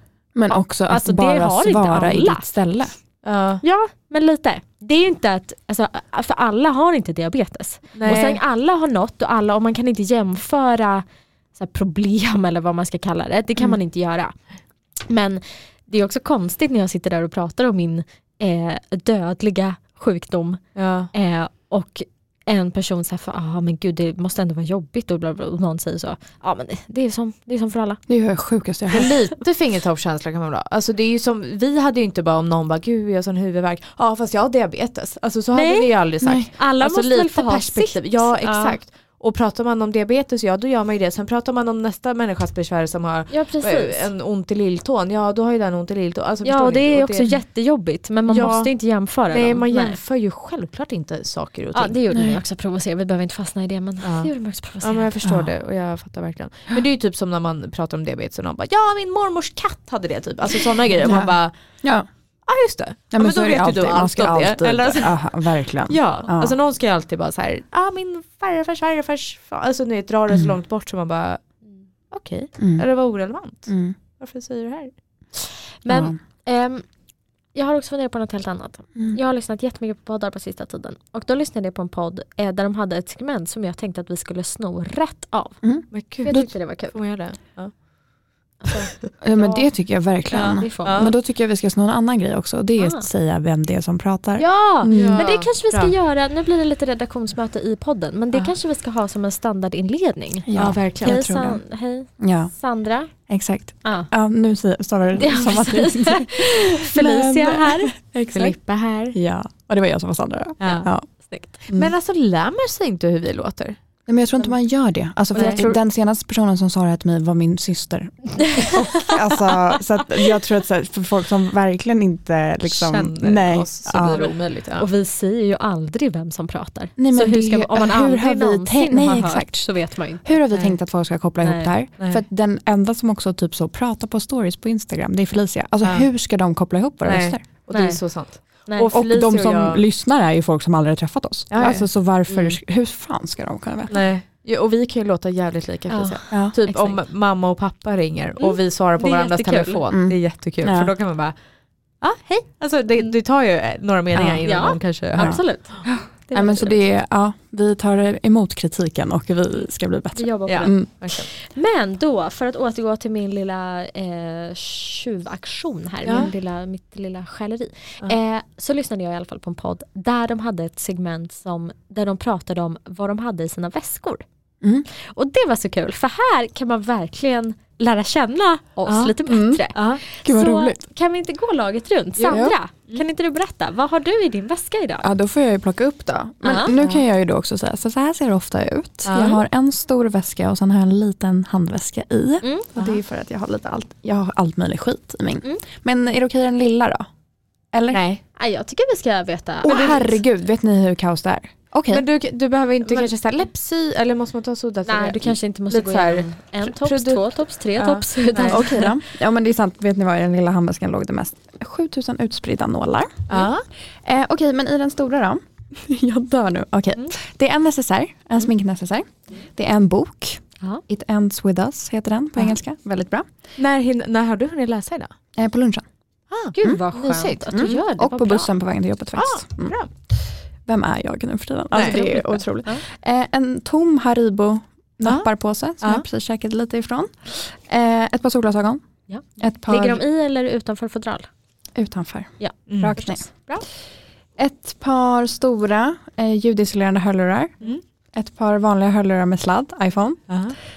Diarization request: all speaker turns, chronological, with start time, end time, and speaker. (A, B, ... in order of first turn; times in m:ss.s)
0:00.3-0:02.9 A
0:00.5-0:02.5 B
0:03.2-0:03.6 C
0:03.6-0:28.0 B
0:08.0-0:08.4 C
0:20.8-0:21.1 C
0:28.1-0:29.1 A
0:28.9-0:47.4 C
0:35.6-0:38.8 B
0:36.2-0:36.5 A
0:43.3-0:44.1 B
0:46.4-0:50.0 B
0:48.3-0:52.0 C
0:51.7-0:55.1 B
0:52.1-0:52.4 A
0:54.0-1:01.5 C
0:55.2-0:55.5 A
1:01.0-1:02.1 A
1:02.5-1:15.0 C
1:03.1-1:06.6 A
1:12.6-1:14.0 A
1:15.3-1:27.0 B
1:15.9-1:16.2 A
1:25.6-1:26.5 A
1:25.9-1:28.5 C
1:28.6-1:31.1 B
1:29.2-1:35.3 A
1:30.3-1:31.1 C
1:32.8-1:33.1 B
1:34.4-1:43.1 B
1:34.9-1:35.9 C
1:40.5-1:41.6 A
1:40.6-1:41.2 C
1:42.2-1:42.5 A
1:43.1-1:48.6 A
1:43.8-1:44.1 B
1:45.2-1:48.0 B
1:48.3-1:49.2 C
1:49.1-1:51.1 A
1:50.6-1:50.9 C
1:50.7-1:51.6 B
1:51.6-1:51.9 A
1:51.7-1:53.8 C
1:54.1-2:04.4 A
1:55.3-1:55.8 B
1:55.3-1:55.8 C
1:58.6-1:59.2 B
2:02.6-2:04.9 C
2:04.8-2:10.2 B
2:07.0-2:17.4 A
2:10.5-2:10.8 C
2:11.4-2:11.7 B
2:15.8-2:16.1 C
2:17.0-2:19.8 C
2:17.7-2:18.9 B
2:18.9-2:24.0 A
2:21.5-2:21.9 C
2:22.3-2:22.6 B
2:23.9-2:31.4 C
2:25.9-2:27.0 B
2:28.4-2:29.8 B
2:29.9-2:30.9 A
2:31.9-2:35.9 C
2:34.2-2:34.4 A
2:34.4-2:36.8 B
2:35.1-2:40.9 A
2:40.2-2:54.2 B
2:40.5-2:41.3 C
2:46.0-2:46.3 C
2:54.6-2:54.9 A
2:54.9-3:05.1 B
2:58.9-2:59.2 C
2:59.2-3:00.9 A
2:59.7-3:00.0 C
3:02.2-3:03.0 C
3:02.3-3:02.6 A
3:05.0-3:17.1 A
3:06.4-3:07.0 B
3:09.1-3:09.4 C
3:12.4-3:12.7 B
3:17.7-3:18.0 A
3:17.9-3:18.2 C
3:18.4-3:20.2 B
3:19.6-3:22.0 A
3:21.9-3:28.9 C
3:22.8-3:23.1 B
3:24.9-3:28.9 B
3:28.5-3:43.3 A
3:33.3-3:33.7 C
3:43.6-3:45.1 C
3:45.4-3:45.9 A
3:46.5-3:48.5 B
3:46.6-4:00.0 A
3:47.5-3:47.8 C
3:49.2-3:49.9 C
3:51.7-3:52.1 C
3:51.8-3:52.8 B
3:55.0-3:56.1 C
3:59.1-4:01.3 B
4:01.8-4:03.5 A
4:02.4-4:03.2 B
4:02.7-4:03.7 C
4:04.4-4:07.6 A
4:08.1-4:10.4 A
4:10.3-4:10.6 C